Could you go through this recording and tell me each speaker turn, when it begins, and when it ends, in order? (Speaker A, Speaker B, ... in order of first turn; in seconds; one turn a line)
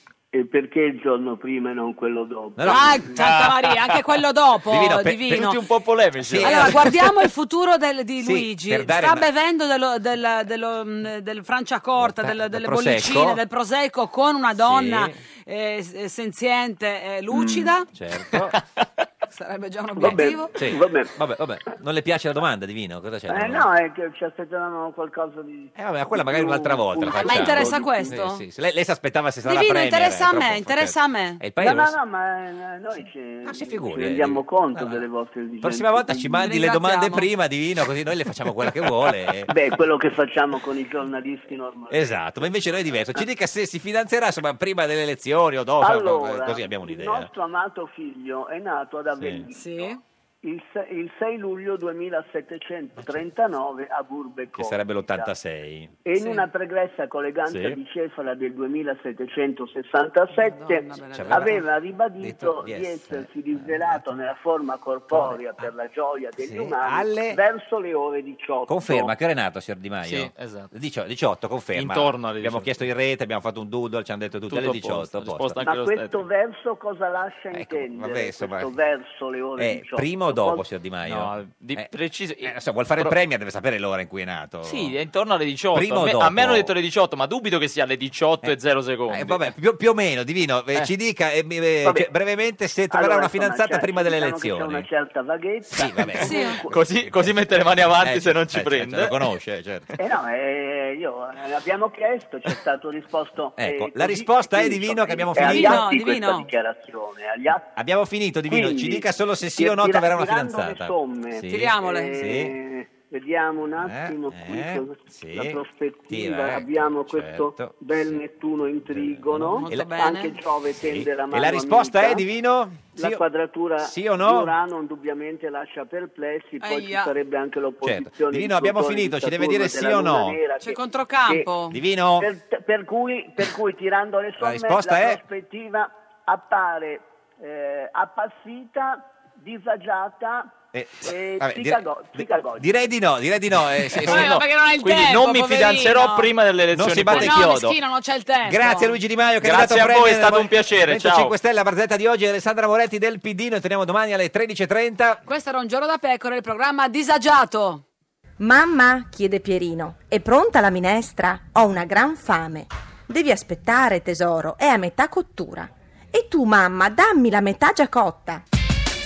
Speaker A: 0.3-2.8
Speaker B: 2.6-3.3
Speaker C: 2.6-5.6
Speaker B: 4.7-5.6
Speaker D: 5.3-6.8
Speaker B: 6.2-7.1
Speaker C: 6.4-17.9
Speaker B: 8.2-9.3
Speaker B: 12.0-13.4
Speaker B: 14.6-15.2
Speaker A: 17.3-17.7
Speaker B: 17.9-18.6
Speaker D: 18.3-19.1
Speaker C: 19.3-20.5
Speaker A: 20.0-21.1
Speaker B: 20.0-23.7
Speaker A: 23.3-28.1
Speaker B: 25.8-32.0
Speaker C: 27.1-28.4
Speaker C: 29.4-31.4
Speaker A: 31.6-36.2
Speaker B: 33.4-35.1
Speaker B: 35.6-39.6
Speaker C: 36.3-37.2
Speaker A: 39.5-42.2
Speaker B: 41.9-47.3
Speaker A: 45.8-55.3
Speaker B: 49.2-49.5
Speaker C: 49.5-50.0
Speaker B: 53.0-53.3
Speaker B: 54.5-55.9
Speaker A: 56.0-69.1
Speaker C: 56.1-56.4
Speaker B: 57.5-57.8
Speaker C: 60.3-61.6
Speaker B: 61.1-61.6
Speaker B: 62.2-64.2
Speaker B: 65.1-65.7
Speaker B: 66.4-67.4
Speaker B: 68.7-75.6
Speaker D: 70.0-70.7
Speaker D: 71.7-72.7
Speaker D: 74.5-76.2
Speaker A: 75.6-80.6
Speaker B: 77.5-78.8
Speaker B: 79.6-81.9
Speaker D: 81.0-83.2
Speaker B: 82.4-85.0
Speaker D: 84.6-89.5
Speaker B: 85.7-86.7
Speaker B: 89.1-94.9
Speaker A: 91.8-92.1
Speaker A: 92.9-96.7
Speaker B: 95.7-97.3
Speaker C: 96.2-96.6
Speaker D: 96.7-99.1
Speaker B: 98.0-100.0
Speaker A: 100.0-107.7
Speaker B: 103.6-105.9
Speaker C: 105.3-106.5
Speaker B: 107.7-112.6
Speaker A: 108.5-109.1
Speaker A: 109.6-122.2
Speaker C: 111.5-112.2
Speaker B: 113.8-118.2
Speaker B: 118.8-120.1
Speaker C: 119.5-120.3
Speaker B: 120.7-123.2
Speaker A: 123.0-131.5
Speaker B: 123.8-124.5
Speaker C: 126.6-127.1
Speaker B: 127.8-130.4
Speaker C: 130.6-131.8
Speaker B: 131.7-132.3
Speaker A: 132.2-142.7
Speaker B: 134.4-135.2
Speaker B: 140.7-144.4
Speaker D: 143.9-147.7
Speaker C: 144.0-146.3
Speaker B: 146.7-147.8
Speaker C: 147.1-149.0
Speaker B: 148.4-155.2
Speaker D: 149.4-151.3
Speaker C: 155.3-157.8
Speaker E: 158.4-168.4